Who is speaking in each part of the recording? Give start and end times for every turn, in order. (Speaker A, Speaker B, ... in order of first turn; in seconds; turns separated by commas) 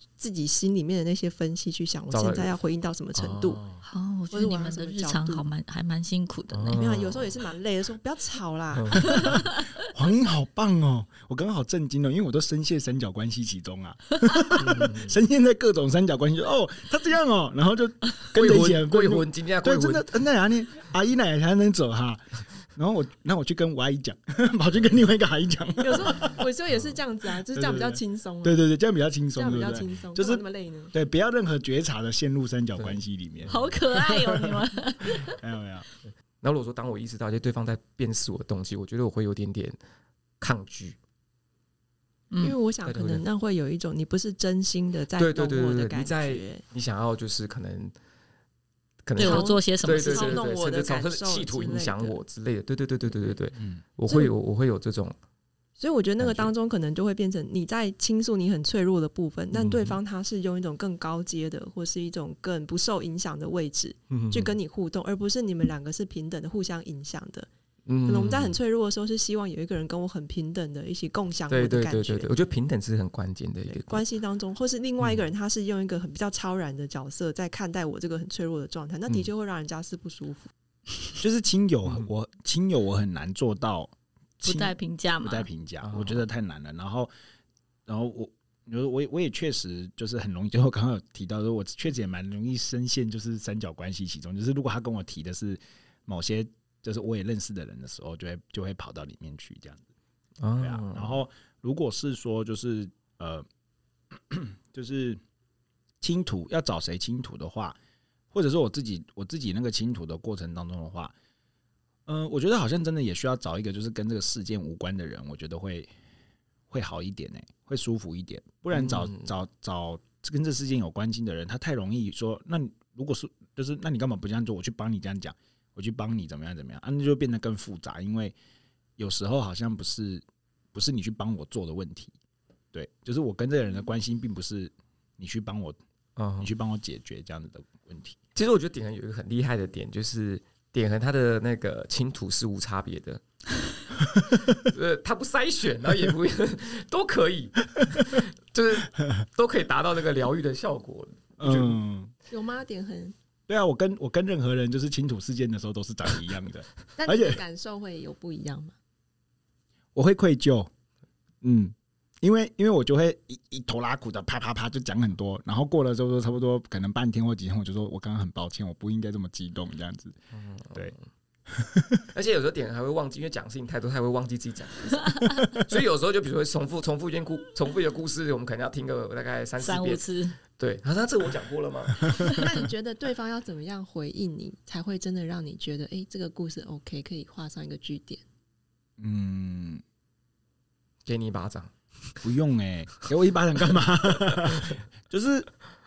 Speaker A: 0.2-3.6, Speaker B: 2.1-2.5, Speaker B: 3.1-3.8, Speaker C: 3.8-6.8, Speaker A: 4.3-5.5, Speaker B: 6.5-7.4, Speaker A: 6.7-9.4, Speaker B: 8.7-9.3, Speaker C: 9.3-9.6, Speaker D: 9.8-22.2, Speaker B: 14.6-15.1, Speaker B: 18.3-20.1, Speaker D: 22.7-26.4, Speaker A: 25.8-28.6, Speaker D: 27.5-34.6, Speaker A: 29.3-30.9, Speaker B: 32.8-33.7, Speaker C: 33.5-35.4, Speaker D: 35.1-35.9, Speaker B: 36.4-39.8, Speaker B: 40.4-41.0, Speaker C: 42.3-42.6, Speaker A: 42.4-46.6, Speaker B: 42.8-43.2, Speaker B: 45.2-47.9, Speaker B: 49.0-55.1, Speaker A: 49.2-52.2, Speaker C: 49.2-50.4, Speaker D: 53.6-53.8, Speaker A: 54.1-54.3, Speaker A: 55.8-67.5, Speaker B: 56.2-56.5, Speaker B: 59.5-60.0, Speaker B: 64.1-64.5, Speaker B: 67.9-68.6, Speaker A: 68.0-72.3, Speaker B: 71.5-74.0, Speaker A: 73.7-80.5, Speaker D: 81.2-87.1, Speaker C: 84.4-85.5, Speaker B: 85.8-86.2, Speaker D: 87.8-99.8, Speaker B: 100.4-101.2, Speaker D: 100.6-103.5, Speaker D: 104.1-105.2, Speaker D: 106.0-107.8, Speaker D: 108.3-111.1, Speaker D: 112.0-115.9, Speaker D: 116.7-128.3, Speaker B: 118.7-119.3, Speaker D: 129.0-132.1, Speaker D: 132.7-135.8, Speaker B: 136.2-136.5, Speaker D: 136.4-138.2, Speaker B: 138.3-143.2, Speaker B: 144.6-151.8, Speaker D: 151.4-152.1, Speaker A: 152.3-153.1, Speaker D: 153.5-157.4, Speaker A: 157.0-158.7, Speaker D: 159.9-160.7, Speaker D: 161.4-170.2, Speaker B: 170.3-171.0, Speaker D: 171.5-172.0, Speaker B: 172.1-182.4, Speaker C: 179.6-180.4, Speaker A: 182.2-188.2, Speaker D: 189.0-189.8, Speaker B: 191.1-192.2, Speaker D: 192.2-195.5, Speaker B: 194.2-194.8